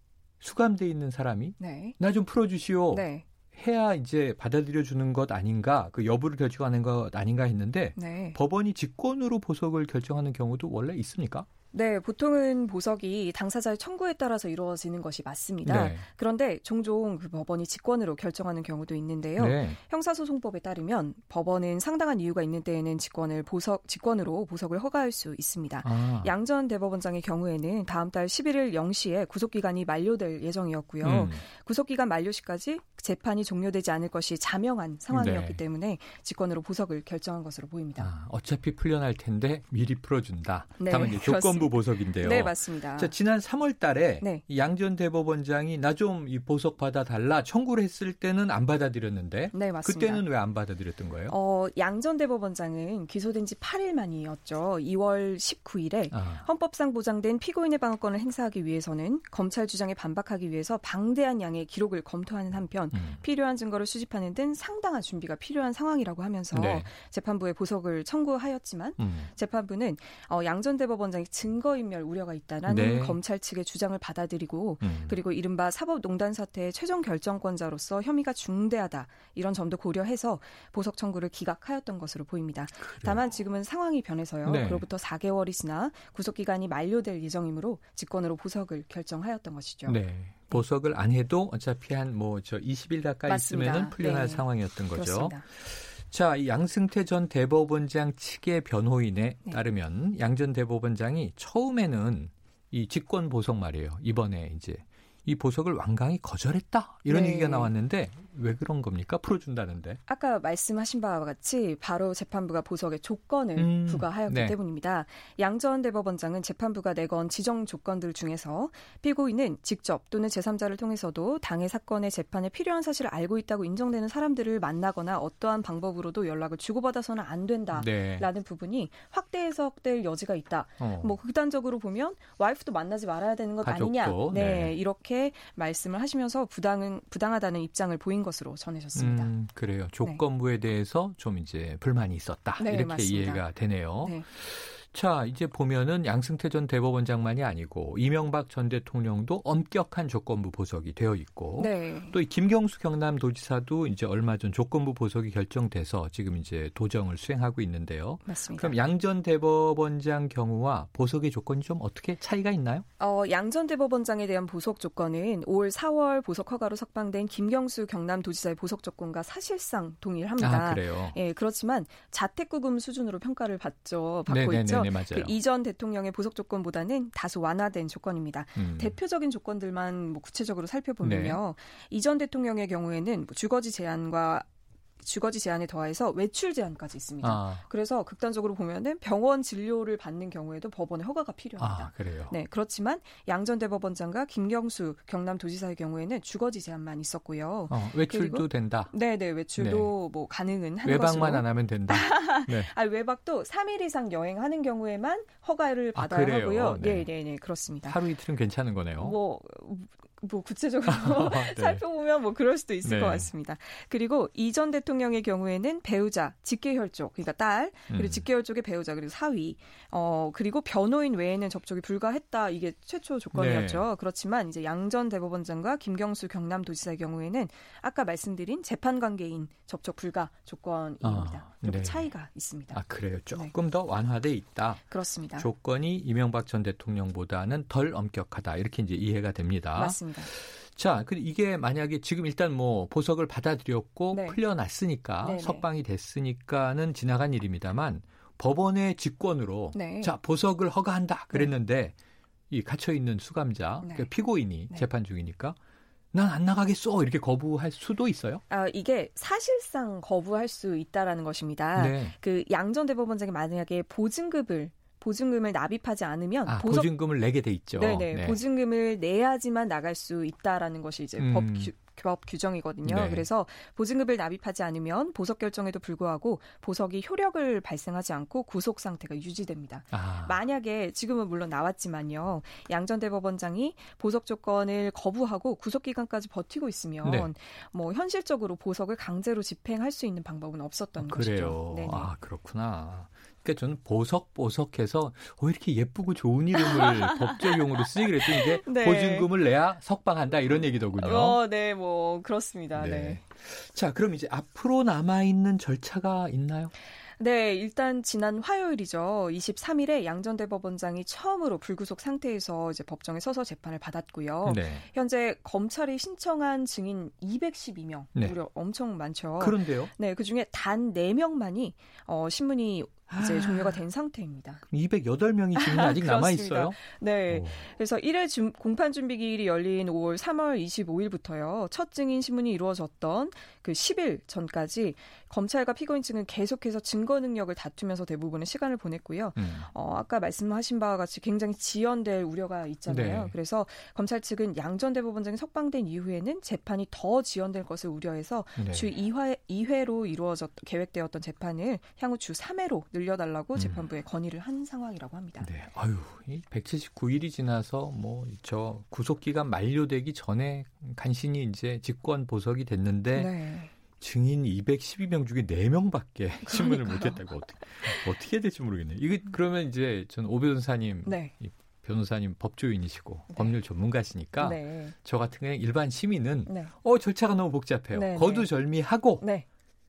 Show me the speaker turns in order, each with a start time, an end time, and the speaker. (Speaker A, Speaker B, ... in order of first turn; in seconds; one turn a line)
Speaker A: 0.4-11.5
Speaker B: 1.6-1.9
Speaker B: 2.9-3.2
Speaker B: 8.0-8.4
Speaker B: 11.7-38.1
Speaker A: 15.6-16.1
Speaker A: 19.4-19.8
Speaker A: 25.8-26.3
Speaker A: 31.0-31.4
Speaker A: 35.1-35.6
Speaker A: 38.0-51.3
Speaker B: 40.8-43.1
Speaker B: 49.5-50.2
Speaker B: 51.3-90.6
Speaker A: 56.1-56.5
Speaker A: 62.9-63.2
Speaker A: 66.5-66.9
Speaker A: 69.0-69.3
Speaker A: 72.7-73.2
Speaker A: 74.8-75.2
Speaker A: 82.9-83.2
Speaker A: 84.5-84.9
Speaker A: 89.9-110.0
Speaker B: 93.3-95.4
Speaker B: 107.1-107.7
Speaker B: 110.1-139.3
Speaker A: 113.5-114.6
Speaker A: 127.7-128.3
Speaker A: 130.8-131.1
Speaker A: 133.6-134.8
Speaker A: 138.9-162.9
Speaker B: 142.6-144.3
Speaker B: 151.6-152.1
Speaker B: 158.2-158.8
Speaker B: 163.0-184.4
Speaker A: 170.4-171.2
Speaker A: 174.3-175.3
Speaker A: 178.6-179.0
Speaker A: 181.0-181.4
Speaker B: 185.0-208.0
Speaker A: 187.2-187.6
Speaker A: 191.6-192.4
Speaker A: 197.7-198.9
Speaker A: 199.6-199.9
Speaker A: 200.8-202.7
Speaker A: 205.9-207.1
Speaker A: 207.8-209.2
Speaker B: 209.0-233.5
Speaker A: 210.9-211.8
Speaker A: 212.8-213.3
Speaker A: 217.9-218.3
Speaker A: 223.3-223.9
Speaker A: 231.0-232.1
Speaker A: 232.7-234.8
Speaker B: 234.9-235.5
Speaker A: 235.4-251.9
Speaker B: 239.7-240.3
Speaker B: 244.1-244.4
Speaker B: 245.2-245.7
Speaker B: 249.7-250.1
Speaker A: 252.5-255.6
Speaker B: 253.8-254.9
Speaker A: 256.1-258.4
Speaker B: 258.5-266.9
Speaker A: 261.7-262.1
Speaker A: 266.4-268.4
Speaker B: 267.8-292.1
Speaker A: 271.2-271.7
Speaker A: 272.8-273.3
Speaker A: 279.9-280.4
Speaker A: 287.0-287.3
Speaker A: 290.9-301.4
Speaker B: 296.6-299.3
Speaker B: 300.9-303.2
Speaker A: 302.7-306.7
Speaker B: 307.2-324.6
Speaker A: 314.4-314.9
Speaker A: 319.4-319.9
Speaker A: 324.7-327.6
Speaker B: 325.6-355.5
Speaker A: 339.4-339.7
Speaker A: 342.9-343.3
Speaker A: 348.6-348.9
Speaker A: 353.6-353.9
Speaker A: 355.4-363.3
Speaker B: 363.1-363.7
Speaker A: 363.9-379.3
Speaker B: 366.4-367.2
Speaker B: 371.1-371.3
Speaker B: 373.3-373.6
Speaker B: 374.4-374.9
Speaker B: 376.4-376.7
Speaker B: 377.9-378.5
Speaker B: 379.2-379.4